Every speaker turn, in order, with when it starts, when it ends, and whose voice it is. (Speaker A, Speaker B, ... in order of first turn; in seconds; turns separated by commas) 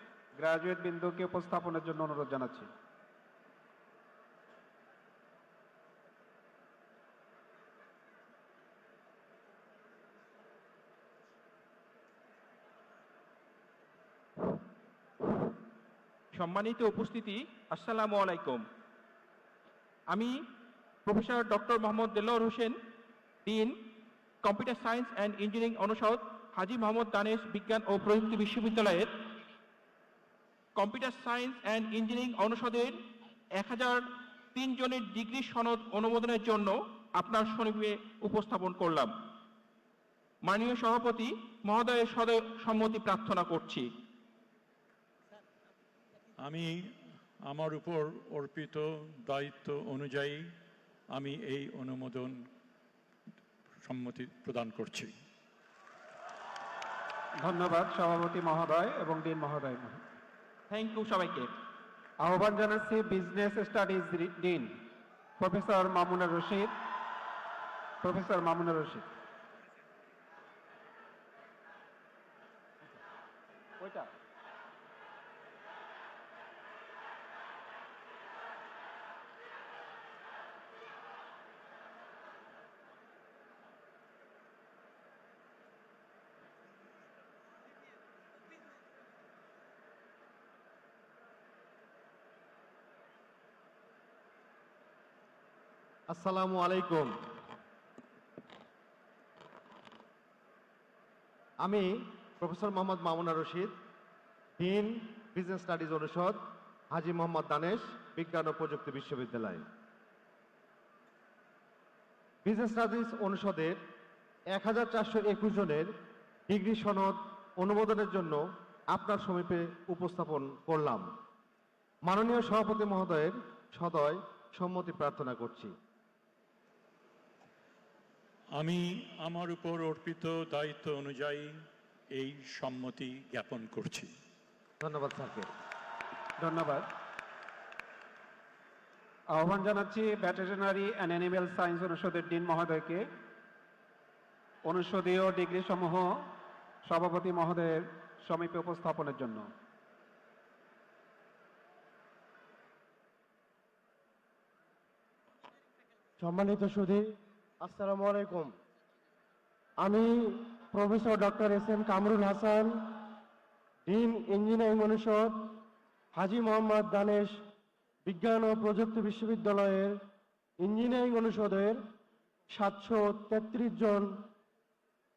Speaker A: 0.4-2.7, Speaker B: 16.3-18.6, Speaker B: 20.1-20.4, Speaker B: 21.1-22.8, Speaker B: 23.4-29.3, Speaker B: 30.8-33.0, Speaker B: 33.5-39.2, Speaker B: 40.4-43.9, Speaker C: 46.4-46.7, Speaker C: 47.5-50.4, Speaker C: 51.1-52.4, Speaker C: 53.8-55.1, Speaker A: 57.4-60.0, Speaker B: 60.7-61.5, Speaker A: 62.2-64.7, Speaker A: 65.4-66.7, Speaker A: 68.0-69.1, Speaker A: 73.8-74.1, Speaker D: 96.1-97.2, Speaker D: 101.6-103.8, Speaker D: 104.6-109.7, Speaker D: 112.5-113.8, Speaker D: 114.5-115.9, Speaker D: 116.5-121.1, Speaker D: 122.0-125.7, Speaker C: 128.6-131.5, Speaker C: 132.2-134.1, Speaker D: 134.8-135.5, Speaker A: 136.4-136.9, Speaker A: 139.3-143.1, Speaker A: 144.7-146.1, Speaker A: 146.8-149.5, Speaker E: 156.2-158.6, Speaker E: 159.8-163.2, Speaker E: 163.9-167.4, Speaker E: 168.1-170.0, Speaker E: 170.6-171.9, Speaker E: 172.5-174.3